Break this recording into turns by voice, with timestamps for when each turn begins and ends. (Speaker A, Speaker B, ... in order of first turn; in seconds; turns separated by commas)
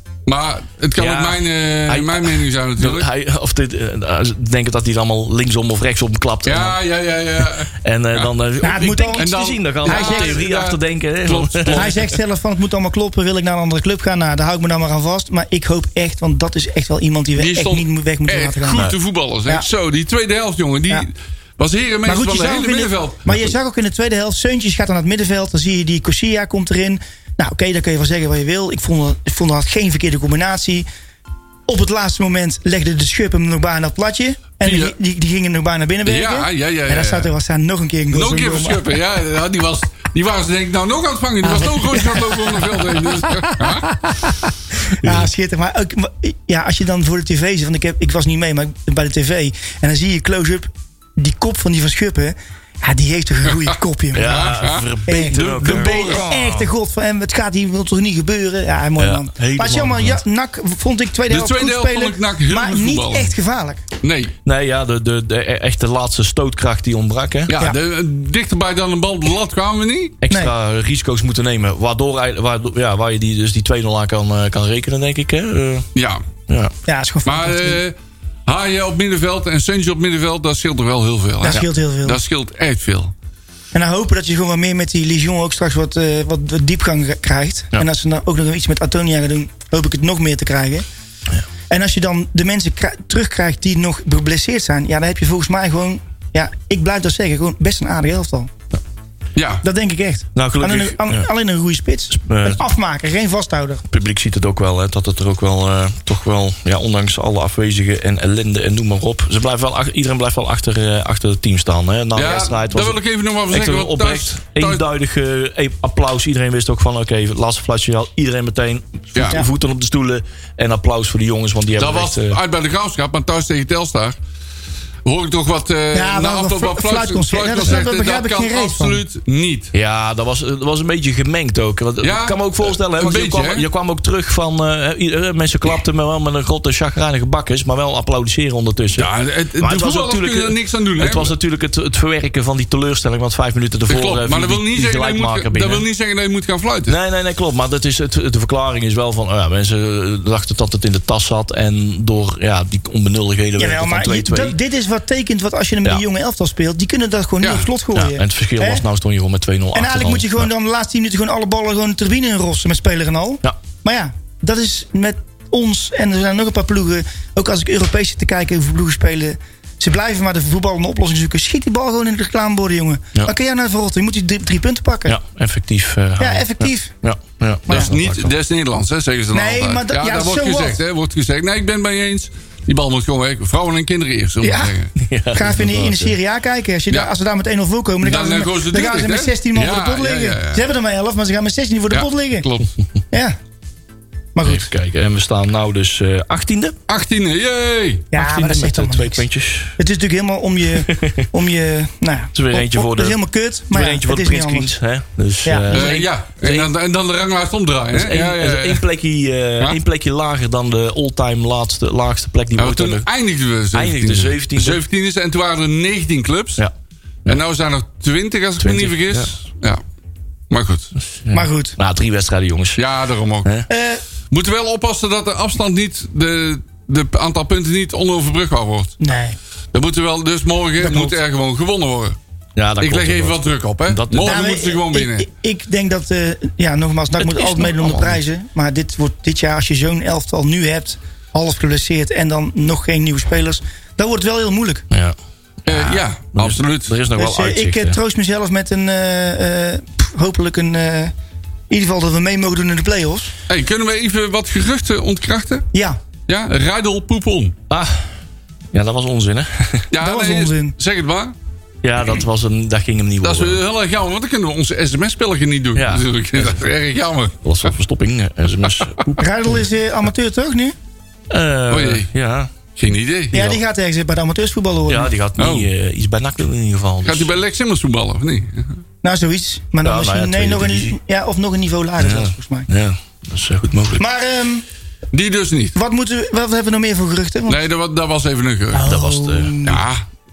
Speaker A: 0.3-3.1, Speaker B: 1.0-6.8, Speaker A: 6.5-8.3, Speaker B: 7.7-12.1, Speaker C: 8.6-10.4, Speaker A: 9.2-12.0, Speaker C: 11.7-18.9, Speaker A: 17.4-23.3, Speaker C: 22.1-30.9, Speaker C: 31.7-38.8, Speaker A: 34.6-35.0, Speaker A: 36.1-37.3, Speaker A: 38.1-43.9, Speaker C: 41.5-44.4, Speaker C: 44.9-63.8, Speaker B: 45.0-45.3, Speaker B: 54.1-56.7, Speaker A: 54.2-56.3, Speaker B: 59.0-60.2, Speaker A: 61.3-63.4, Speaker A: 64.0-64.3, Speaker B: 64.5-67.6, Speaker A: 67.5-70.2, Speaker B: 70.2-75.9, Speaker A: 76.0-76.2, Speaker B: 76.5-76.7, Speaker C: 76.9-77.8, Speaker A: 77.2-78.0, Speaker A: 78.5-83.1, Speaker C: 81.4-82.2, Speaker C: 83.7-90.8, Speaker C: 91.7-98.5, Speaker A: 99.4-99.6, Speaker C: 99.6-103.8, Speaker B: 100.3-101.3, Speaker B: 102.1-102.6, Speaker B: 103.9-122.4, Speaker A: 112.2-114.8, Speaker A: 119.2-119.4, Speaker A: 121.8-124.2, Speaker A: 125.0-129.7, Speaker C: 125.9-129.0, Speaker B: 129.7-145.8, Speaker A: 132.0-133.7, Speaker A: 139.0-141.3, Speaker A: 143.9-147.0, Speaker B: 146.9-154.6, Speaker C: 153.6-158.8, Speaker A: 157.4-157.7, Speaker B: 157.9-160.5, Speaker C: 159.7-175.2, Speaker B: 175.1-178.4, Speaker C: 176.2-176.9, Speaker A: 177.7-184.9, Speaker C: 179.3-180.8, Speaker C: 184.4-184.7, Speaker B: 185.0-186.2, Speaker C: 185.3-192.5, Speaker A: 188.0-190.7, Speaker A: 191.9-192.7, Speaker C: 194.3-194.7, Speaker B: 194.4-196.8, Speaker A: 196.9-198.1, Speaker C: 198.1-199.2, Speaker B: 198.1-199.8, Speaker C: 199.8-204.7, Speaker B: 200.8-201.3, Speaker B: 202.3-203.2, Speaker B: 203.7-206.7, Speaker C: 205.4-205.9, Speaker A: 205.7-208.8, Speaker B: 207.9-213.1, Speaker A: 212.6-216.6, Speaker B: 213.7-214.8, Speaker A: 217.3-219.8, Speaker B: 218.6-219.3, Speaker A: 220.5-220.9, Speaker B: 221.2-222.8, Speaker C: 221.3-221.8, Speaker A: 222.8-223.5, Speaker C: 223.7-224.0, Speaker A: 224.3-229.0, Speaker C: 229.0-229.4, Speaker A: 229.7-232.2, Speaker C: 230.8-231.2, Speaker B: 232.6-234.4, Speaker A: 232.8-235.3, Speaker C: 234.2-244.8, Speaker B: 237.2-238.2, Speaker B: 244.9-248.0, Speaker A: 245.7-246.9, Speaker C: 247.2-251.1, Speaker C: 251.7-253.3, Speaker A: 253.5-255.7, Speaker C: 255.7-256.0, Speaker A: 256.3-257.6, Speaker B: 257.7-258.1, Speaker B: 258.7-259.9, Speaker A: 259.9-261.3, Speaker C: 260.0-260.8, Speaker B: 261.8-263.6, Speaker A: 263.2-267.4, Speaker B: 265.8-266.6, Speaker B: 267.4-269.7, Speaker C: 269.2-270.8, Speaker B: 271.3-272.5, Speaker A: 271.7-272.1, Speaker A: 272.8-273.4, Speaker B: 273.3-273.6, Speaker C: 273.3-275.1, Speaker B: 274.9-277.4, Speaker A: 275.4-275.7, Speaker A: 277.1-278.8, Speaker C: 279.0-282.7, Speaker B: 279.8-281.0, Speaker B: 282.0-284.0, Speaker C: 284.0-284.6, Speaker A: 285.1-285.8, Speaker C: 285.8-287.6, Speaker A: 287.5-288.9, Speaker C: 288.7-289.8, Speaker B: 288.9-289.6, Speaker A: 289.6-290.0